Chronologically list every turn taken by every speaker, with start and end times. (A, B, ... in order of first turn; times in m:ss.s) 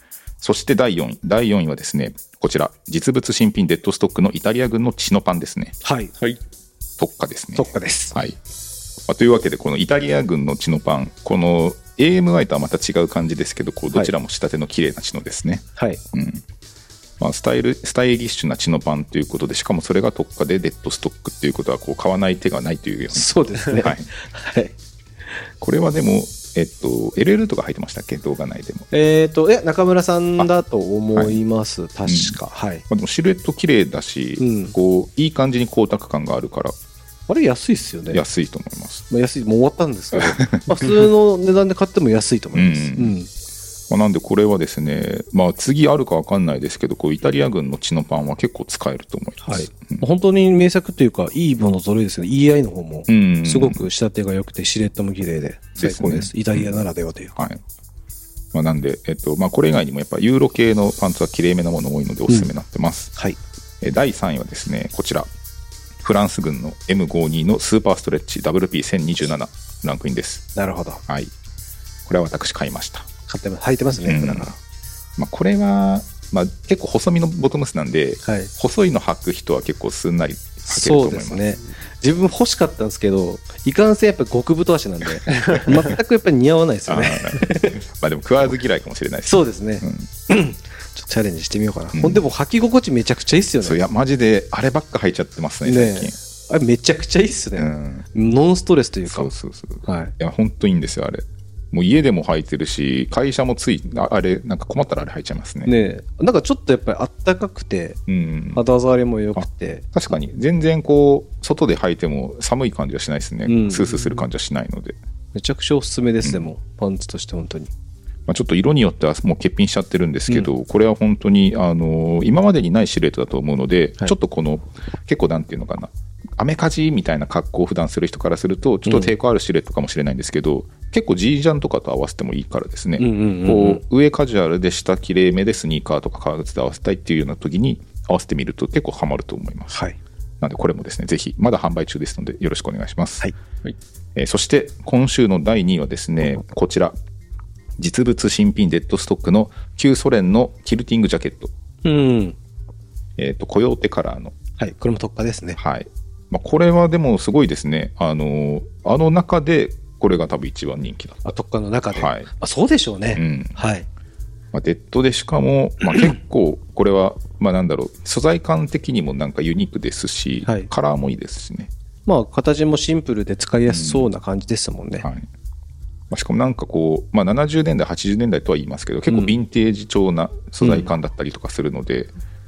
0:00.4-0:05.8 A
0:05.8-0:06.1 B
0:07.0-0:08.4 A
0:07.5-0:08.2 B
0:09.1-0:16.4 A
0:17.2-0:24.1 A
0:23.1-0:24.7 B
0:25.6-0:28.9 A
0:28.9-0:32.8 B
0:32.0-0:32.4 A
0:32.9-0:36.7 A
0:34.4-0:34.7 B
0:37.3-0:38.2 B
0:38.1-0:39.0 A
0:39.1-0:43.3 B
0:40.1-0:41.1 A
0:42.5-0:43.1 A
0:43.9-0:50.0 A
0:49.4-0:57.4 B
0:53.1-0:53.8 A
0:55.8-0:56.8 A
0:57.4-0:57.6 A
0:58.5-1:03.1 A
1:03.8-1:05.3 A
1:06.0-1:10.4 A
1:10.5-1:11.0 B
1:11.1-1:11.3 A
1:12.0-1:13.1 A
1:13.3-1:14.5 B
1:14.0-1:14.6 A
1:15.2-1:21.4 A
1:18.2-1:18.5 B
1:20.7-1:27.8 B
1:26.9-1:30.1 A
1:29.2-1:33.8 B
1:31.9-1:32.2 A
1:33.6-1:36.2 A
1:35.6-1:39.3 B
1:37.6-1:38.1 A
1:39.1-1:45.7 A
1:39.8-1:40.1 B
1:45.6-1:48.0 B
1:48.1-1:48.6 A
1:48.5-1:49.8 B
1:49.4-1:55.0 A
1:53.4-1:53.9 B
1:55.3-1:57.7 B
1:56.2-1:56.5 A
1:58.3-2:19.7 A
2:08.8-2:09.1 B
2:13.0-2:13.8 B
2:19.7-2:20.0 B
2:20.4-2:23.3 A
2:24.2-2:26.9 A
2:27.8-2:31.5 A
2:31.8-2:32.4 B
2:33.2-2:34.3 A
2:34.6-2:35.6 B
2:35.6-2:41.3 A
2:41.2-2:43.9 B
2:41.9-2:42.3 A
2:43.1-2:43.6 A
2:44.5-2:51.7 A
2:50.4-2:50.7 B
2:52.0-2:55.0 B
2:53.7-2:54.1 A
2:55.0-2:55.3 A
2:56.1-3:02.1 A
2:59.1-2:59.3 B
3:00.6-3:00.9 B